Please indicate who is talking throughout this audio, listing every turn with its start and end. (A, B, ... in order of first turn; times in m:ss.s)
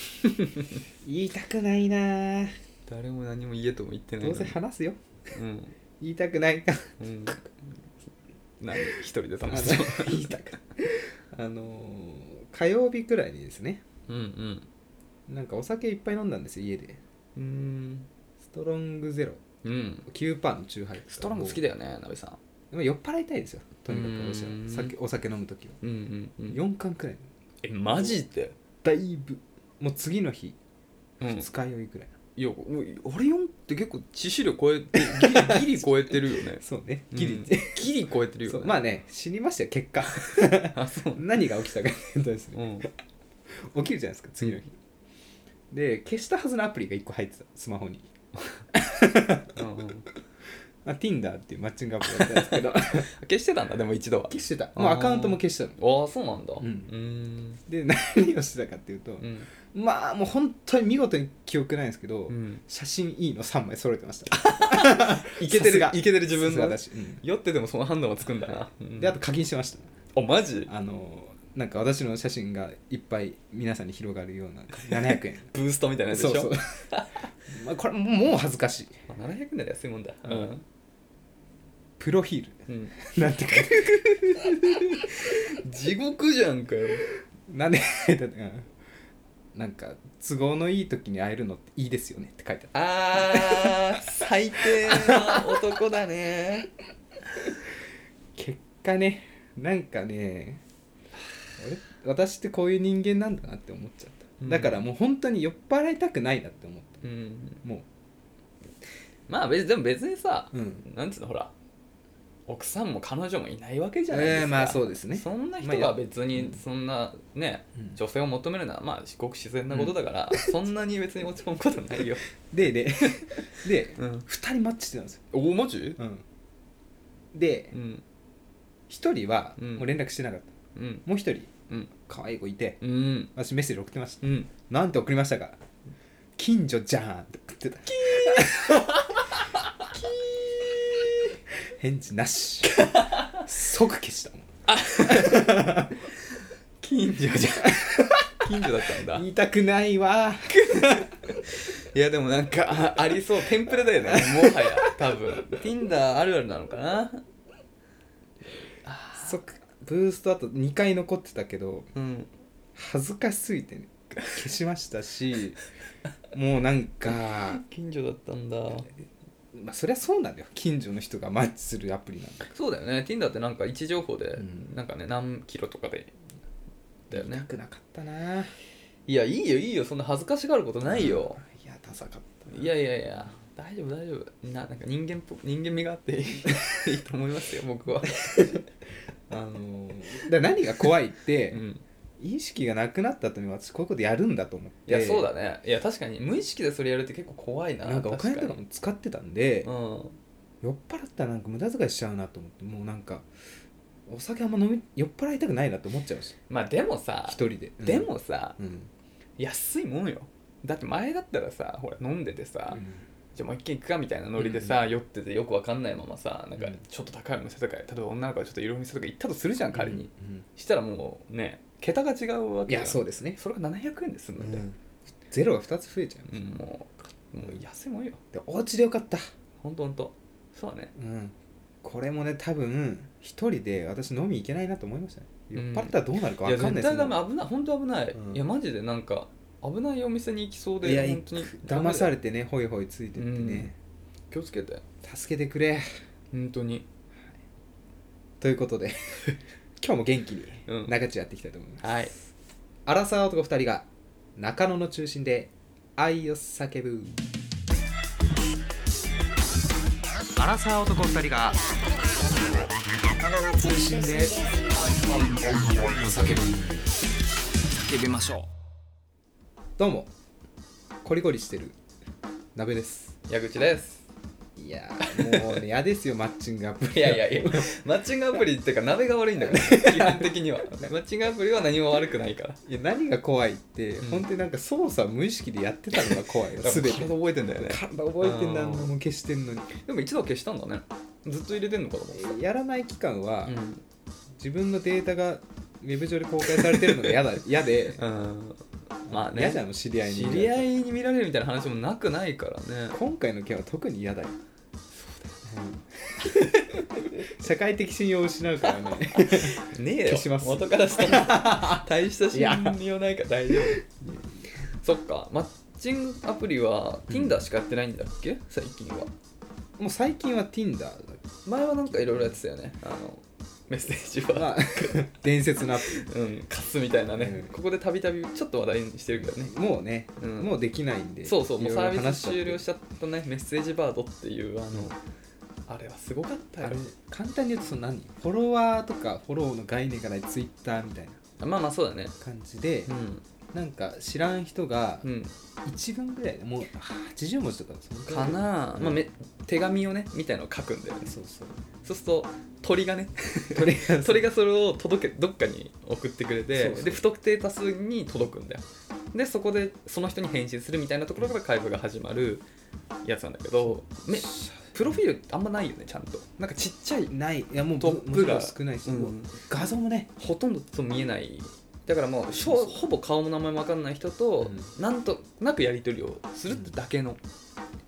0:00.2-0:00.5 A
0:01.0-0:02.5 A
0:02.9-0:04.6 B
0:04.2-0:05.0 A
0:05.3-0:05.8 B
0:06.0-0:07.3 A
0:07.0-0:07.4 B
0:08.6-0:10.3 B
0:08.9-0:13.8 A
0:14.1-0:14.7 B
0:15.3-0:17.0 A
0:17.4-0:18.1 B
0:18.5-0:19.4 A
0:19.6-0:20.1 B
0:20.1-0:21.6 A
0:21.1-0:22.4 B
0:22.7-0:25.8 A
0:23.9-0:24.9 B
0:25.8-0:26.6 B
0:26.5-0:27.3 A
0:27.6-0:28.6 B
0:28.8-0:30.6 A
0:31.2-0:31.5 B
0:31.4-0:32.1 A
0:32.4-0:38.8 B
0:34.9-0:37.9 A
0:38.5-0:42.9 A
0:40.2-0:41.2 B
0:42.6-0:42.9 B
0:43.5-0:44.7 A
0:45.7-0:48.1 A
0:48.7-0:49.6 A
0:49.6-0:50.1 B
0:50.8-0:53.1 A
0:52.1-0:57.6 B
0:54.3-0:55.8 A
0:56.6-0:56.9 A
0:57.7-1:07.2 A
0:59.2-0:59.5 B
1:02.3-1:02.6 B
1:04.4-1:09.2 B
1:08.5-1:09.9 A
1:10.1-1:10.7 B
1:10.7-1:15.5 A
1:14.8-1:17.3 B
1:16.1-1:16.9 A
1:17.5-1:19.0 A
1:19.1-1:20.6 B
1:22.0-1:25.1 A
1:22.7-1:22.9 B
1:23.5-1:27.1 B
1:27.5-1:28.7 A
1:29.6-1:35.7 A
1:32.7-1:36.7 B
1:38.4-1:40.6 A
1:41.6-1:47.0 A
1:44.4-1:44.8 B
1:47.0-1:47.6 B
1:49.3-1:51.5 B
1:50.5-1:50.8 A
1:52.5-2:02.2 B
1:54.1-1:56.6 A
1:59.7-2:00.5 A
2:02.5-2:05.3 A
2:04.0-2:04.2 B
2:05.3-2:06.0 B
2:06.0-2:06.2 A
2:07.3-2:07.7 A
2:07.7-2:08.0 B
2:08.9-2:10.5 A
2:09.6-2:09.9 B
2:10.8-2:11.0 B
2:11.0-2:12.8 A
2:12.8-2:13.3 B
2:13.4-2:15.6 A
2:14.2-2:14.5 B
2:16.4-2:19.2 A
2:17.9-2:20.0 B
2:19.9-2:26.0 A
2:20.8-2:21.3 B
2:22.6-2:23.4 B
2:24.7-2:25.8 B
2:26.8-2:29.3 B
2:27.6-2:31.4 A
2:30.5-2:37.2 B
2:34.0-2:35.0 A
2:38.8-2:39.4 B
2:39.2-2:41.9 A
2:42.0-2:42.3 B
2:42.8-2:45.6 A
2:46.3-2:47.6 A
2:47.1-2:48.9 B
2:49.5-2:52.5 A
2:52.5-2:56.1 B
2:54.4-2:54.7 A
2:57.1-2:57.5 B
2:57.1-2:58.5 A
2:59.1-3:01.4 B
3:00.8-3:02.7 A
3:02.5-3:08.6 B
3:08.1-3:08.6 A
3:09.3-3:11.6 A
3:11.5-3:11.8 B
3:12.2-3:15.3 A
3:14.9-3:18.6 B
3:17.8-3:19.7 A
3:19.6-3:20.2 B
3:20.6-3:23.3 A
3:24.1-3:26.4 A
3:26.5-3:28.6 B
3:27.3-3:28.9 A
3:29.4-3:32.8 B
3:32.7-3:33.0 A
3:33.4-3:44.7 B
3:34.4-3:34.8 A
3:39.7-3:40.4 A
3:42.7-3:43.4 A
3:44.4-3:44.8 A
3:45.3-3:46.6 A
3:46.3-3:48.2 B
3:48.3-3:49.3 A
3:49.6-3:50.9 B
3:51.0-3:57.2 A
3:55.6-4:02.1 B
3:58.2-3:58.4 A
4:00.8-4:03.8 A
4:03.2-4:03.7 B
4:04.3-4:04.8 B
4:05.0-4:05.9 A
4:06.3-4:06.9 B
4:08.4-4:11.9 A
4:10.7-4:10.9 B
4:11.8-4:12.2 B
4:12.9-4:17.2 A
4:20.4-4:21.7 A
4:23.0-4:26.8 A
4:27.9-4:28.5 A
4:29.8-4:30.1 A
4:31.0-4:31.8 A
4:32.6-4:33.2 A
4:33.3-4:34.0 B
4:34.6-4:37.7 A
4:35.1-4:35.6 B
4:36.9-4:42.6 B
4:39.4-4:40.9 A
4:42.6-4:49.7 A
4:44.0-4:44.3 B
4:46.0-4:48.9 B
4:49.8-4:52.4 B
4:52.1-4:53.6 A
4:53.5-4:53.8 B
4:54.4-4:58.0 A
4:56.5-4:57.2 B
4:57.9-5:03.0 B
4:59.1-5:00.7 A
5:02.9-5:04.4 A
5:04.9-5:05.3 B
5:05.4-5:12.8 A
5:06.2-5:07.3 B
5:09.2-5:13.8 B
5:13.5-5:14.4 A
5:14.8-5:19.1 B
5:17.1-5:17.4 A
5:19.8-5:21.2 A
5:21.4-5:25.0 B
5:22.0-5:22.4 A
5:24.3-5:26.1 A
5:25.6-5:29.5 B
5:27.2-5:27.5 A
5:29.2-5:32.6 A
5:30.2-5:30.5 B
5:31.2-5:35.0 B
5:35.7-5:36.8 B
5:36.6-5:41.2 A
5:41.4-5:42.2 B
5:42.2-5:42.9 A
5:42.9-5:43.2 B
5:43.5-5:45.1 A
5:45.0-5:45.3 B
5:45.6-5:49.0 A
5:48.1-5:51.1 B
5:51.0-5:51.7 A
5:51.8-6:02.4 B
5:53.5-5:54.3 A
5:56.6-5:57.0 A
6:03.0-6:07.1 B
6:04.1-6:05.0 A
6:07.1-6:10.1 A
6:07.8-6:09.3 B
6:10.2-6:17.2 B
6:12.5-6:12.7 A
6:14.4-6:14.7 A